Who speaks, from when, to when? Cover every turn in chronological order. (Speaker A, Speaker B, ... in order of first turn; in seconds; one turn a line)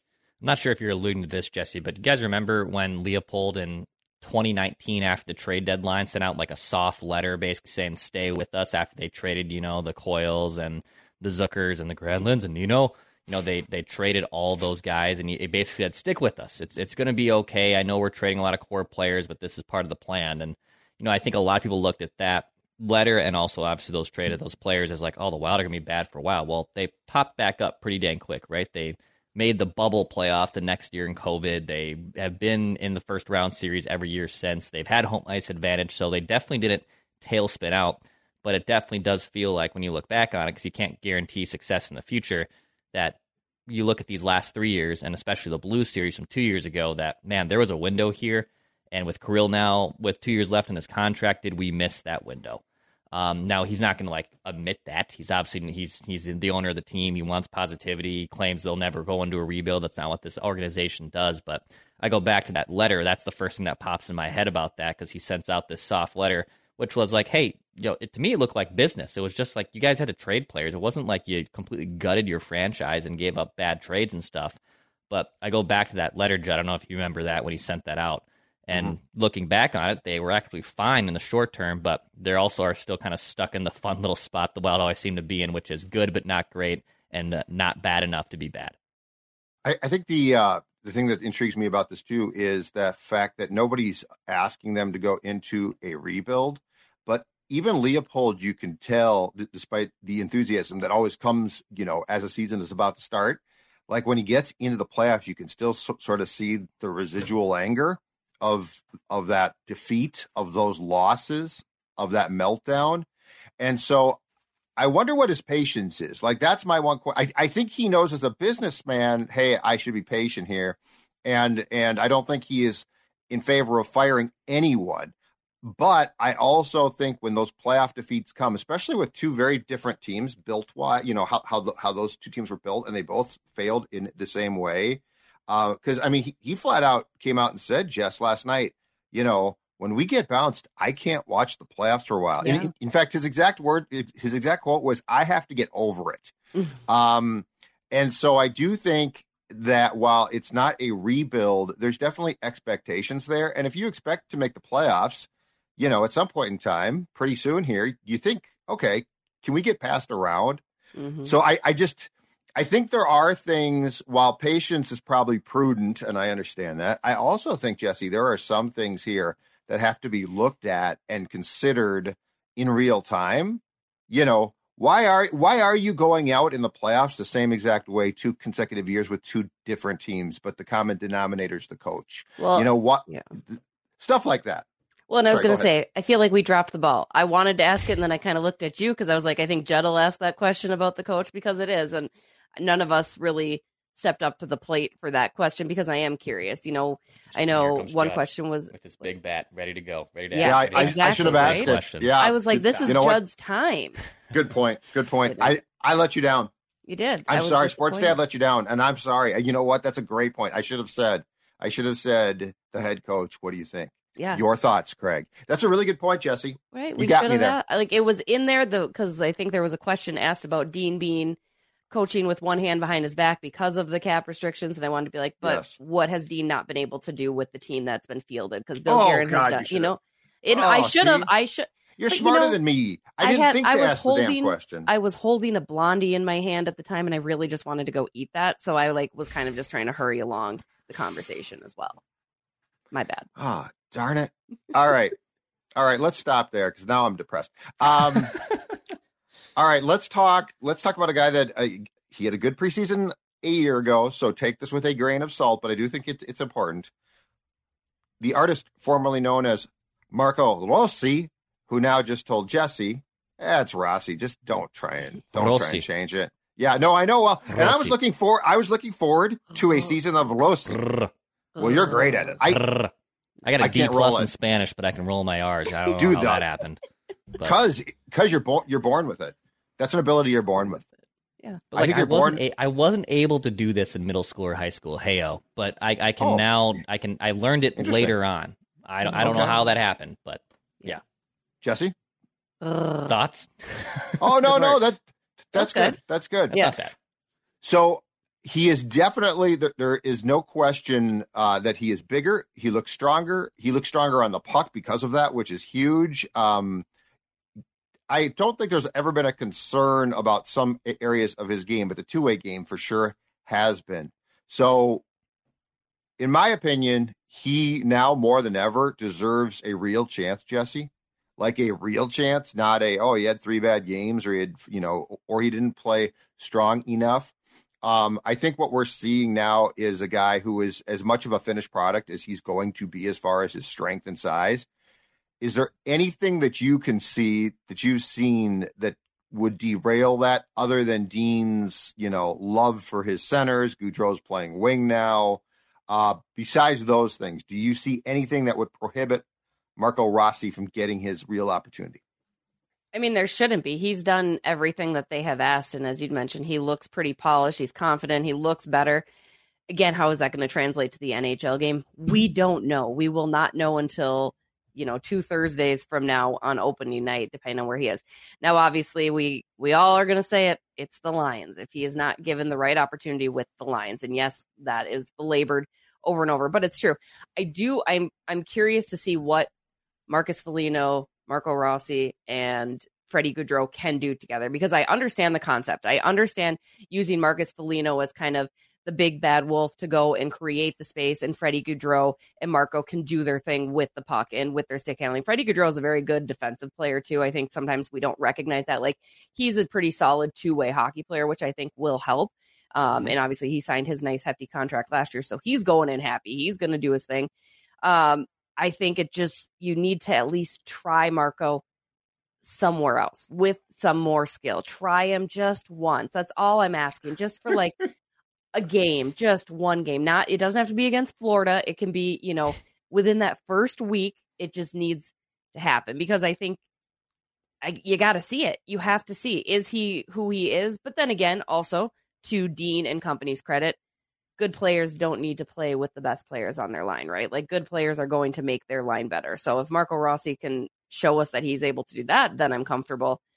Speaker A: 0.4-74.6
Speaker A: 75.1-88.8
Speaker B: 89.6-113.1
Speaker B: 113.6-114.2
Speaker B: 114.8-125.1
Speaker B: 125.6-146.3
Speaker C: 142.4-142.7
Speaker B: 146.9-160.6
Speaker C: 161.0-161.3
Speaker B: 161.2-184.7
Speaker C: 182.4-183.3
Speaker C: 185.1-199.1
Speaker B: 185.3-185.7
Speaker A: 197.3-202.2
Speaker C: 200.3-204.0
Speaker B: 200.4-203.2
Speaker A: 202.7-203.0
Speaker B: 204.3-206.5
Speaker C: 205.3-205.5
Speaker C: 206.9-208.2
Speaker B: 207.3-217.6
Speaker C: 214.2-214.4
Speaker C: 216.7-221.4
Speaker C: 221.9-232.6
Speaker B: 225.4-225.7
Speaker B: 228.8-229.9
Speaker B: 230.5-231.3
Speaker B: 232.0-234.9
Speaker C: 233.2-242.0
Speaker C: 242.9-243.3
Speaker B: 243.4-245.2
Speaker B: 245.8-248.4
Speaker B: 249.6-256.9
Speaker B: 258.2-270.8
Speaker A: 265.3-265.9
Speaker A: 267.5-267.9
Speaker A: 270.7-271.1
Speaker C: 271.6-272.1
Speaker B: 271.6-272.6
Speaker A: 272.4-272.9
Speaker A: 273.4-276.8
Speaker B: 273.6-274.3
Speaker B: 276.0-276.4
Speaker B: 277.4-280.9
Speaker A: 281.7-291.0
Speaker B: 281.8-282.4
Speaker B: 286.2-286.4
Speaker B: 287.8-288.1
Speaker B: 289.0-289.6
Speaker B: 291.6-291.9
Speaker C: 292.6-293.1
Speaker A: 293.1-294.8
Speaker B: 294.2-295.0
Speaker B: 295.5-296.6
Speaker C: 295.5-296.0
Speaker C: 296.5-296.8
Speaker A: 296.5-296.9
Speaker B: 297.6-306.9
Speaker B: 308.1-315.0
Speaker B: 316.2-327.3
Speaker B: 327.8-334.7
Speaker B: 335.4-349.2
Speaker B: 349.8-352.0
Speaker C: 352.9-359.1
Speaker C: 359.7-379.5
Speaker C: 380.1-407.3
Speaker C: 407.8-411.6
Speaker C: 412.4-417.9
Speaker C: 418.5-426.6
Speaker C: 427.6-433.8
Speaker C: 434.4-443.2